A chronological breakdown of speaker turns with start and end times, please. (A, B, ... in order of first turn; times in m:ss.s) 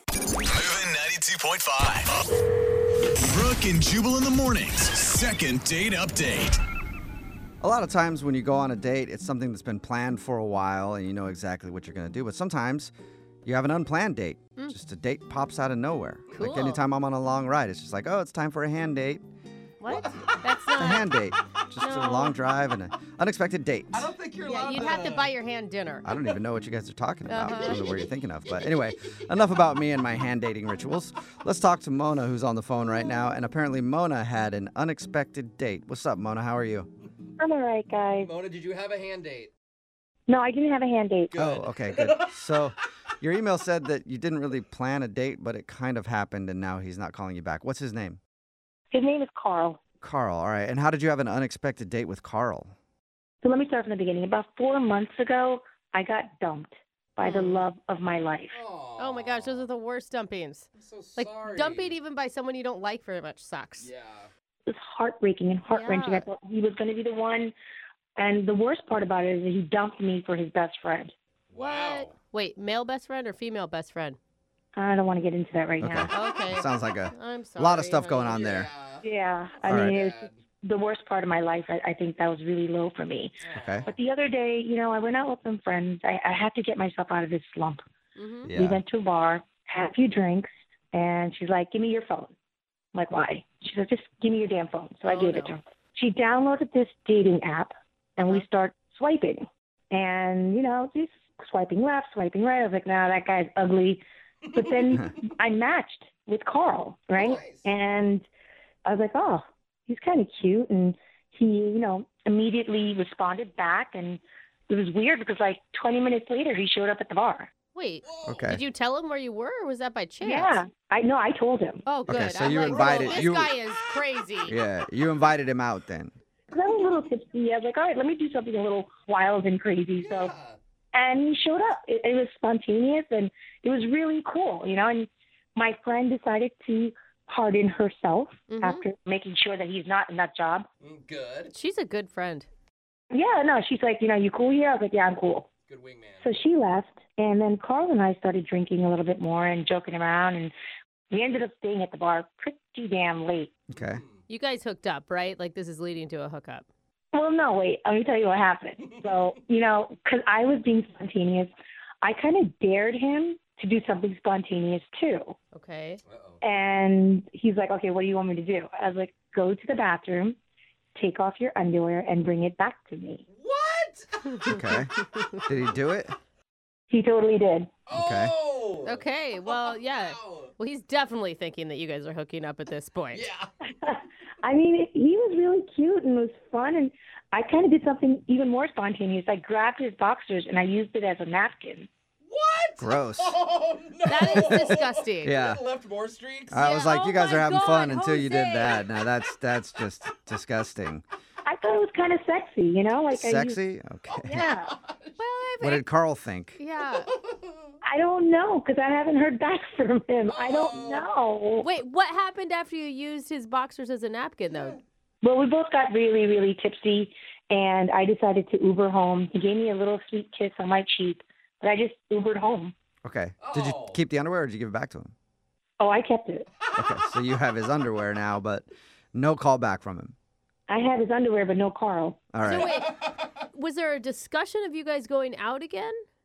0:00.5-0:02.1 A
0:03.3-0:06.6 A
0:07.6-0:12.9 B
0:13.4-0:19.2 B
0:16.4-0:16.8 C
0:19.8-0:21.1 C
0:19.9-0:20.4 D
0:20.8-0:24.1 B
0:21.8-0:22.4 C
0:23.9-0:25.3 D
0:24.4-0:26.1 C
0:26.0-0:36.9 B
0:27.3-0:27.9 C
0:27.6-0:29.2 D
0:37.4-0:38.3 E
0:38.1-0:39.5 D
0:40.3-0:41.4 E
0:41.3-0:42.4 D
0:41.4-0:48.2 B
0:48.9-0:49.8 E
0:50.0-0:52.7 B
0:53.4-0:58.6 E
0:57.2-0:57.7 C
0:58.5-0:59.7 D
0:59.0-1:03.9 C
1:00.8-1:02.0 D
1:03.8-1:04.3 D
1:04.7-1:07.5 E
1:05.7-1:06.3 C
1:08.2-1:11.1 E
1:11.5-1:12.2 D
1:11.5-1:14.2 C
1:14.8-1:16.1 E
1:15.8-1:18.7 B
1:16.1-1:18.4 C
1:18.3-1:19.1 D
1:19.0-1:27.8 E
1:19.6-1:20.4 D
1:19.7-1:20.0 B
1:23.4-1:24.0 D
1:23.6-1:23.9 B
1:28.2-1:28.5 C
1:28.5-1:28.8 B
1:28.5-1:32.3 E
1:32.9-1:44.0 E
1:35.0-1:35.5 C
1:44.4-1:45.0 D
1:44.5-1:48.2 E
1:47.2-1:47.7 D
1:48.9-1:57.5 E
1:57.7-2:00.6 C
1:58.0-1:58.6 D
1:58.3-1:58.6 B
2:00.2-2:01.9 E
2:01.9-2:04.6 C
2:02.1-2:03.5 B
2:02.6-2:03.9 D
2:04.5-2:06.2 B
2:06.5-2:10.3 E
2:06.6-2:07.1 D
2:10.0-2:10.6 D
2:10.9-2:20.7 E
2:18.5-2:18.8 C
2:20.8-2:21.5 D
2:21.5-2:22.5 C
2:23.1-2:25.5 E
2:25.7-2:26.4 D
2:26.2-2:30.5 E
2:31.1-2:33.5 E
2:33.7-2:34.0 B
2:33.7-2:34.2 D
2:34.3-2:36.7 C
2:37.1-2:45.4 E
2:38.8-2:39.3 D
2:45.5-2:46.0 C
2:46.1-2:46.4 D
2:46.4-2:50.4 E
2:51.0-2:53.2 E
2:53.3-2:54.5 D
2:54.4-2:55.4 C
2:54.5-2:54.9 B
2:55.5-2:56.1 B
2:56.9-2:57.7 E
2:57.9-3:00.5 D
2:57.9-2:58.4 B
2:58.8-3:03.3 C
3:03.1-3:03.7 D
3:03.7-3:11.9 E
3:12.2-3:19.3 D
3:12.8-3:13.4 B
3:14.1-3:15.4 C
3:14.2-3:14.7 B
3:15.2-3:15.6 B
3:16.5-3:21.0 B
3:16.6-3:18.5 C
3:21.4-3:23.6 E
3:23.1-3:24.4 B
3:24.2-3:25.2 D
3:24.3-3:24.7 E
3:25.2-3:25.8 C
3:25.6-3:26.6 B
3:26.6-3:27.1 C
3:26.9-3:27.8 D
3:27.8-3:31.7 E
3:30.3-3:31.1 D
3:31.6-3:34.8 C
3:34.5-3:34.8 D
3:35.2-3:42.7 E
3:43.0-3:45.1 B
3:43.4-3:44.0 D
3:45.8-3:46.5 E
3:46.8-3:50.2 B
3:50.7-3:52.2 E
3:52.3-3:52.7 B
3:52.4-3:56.0 C
3:52.6-3:53.4 D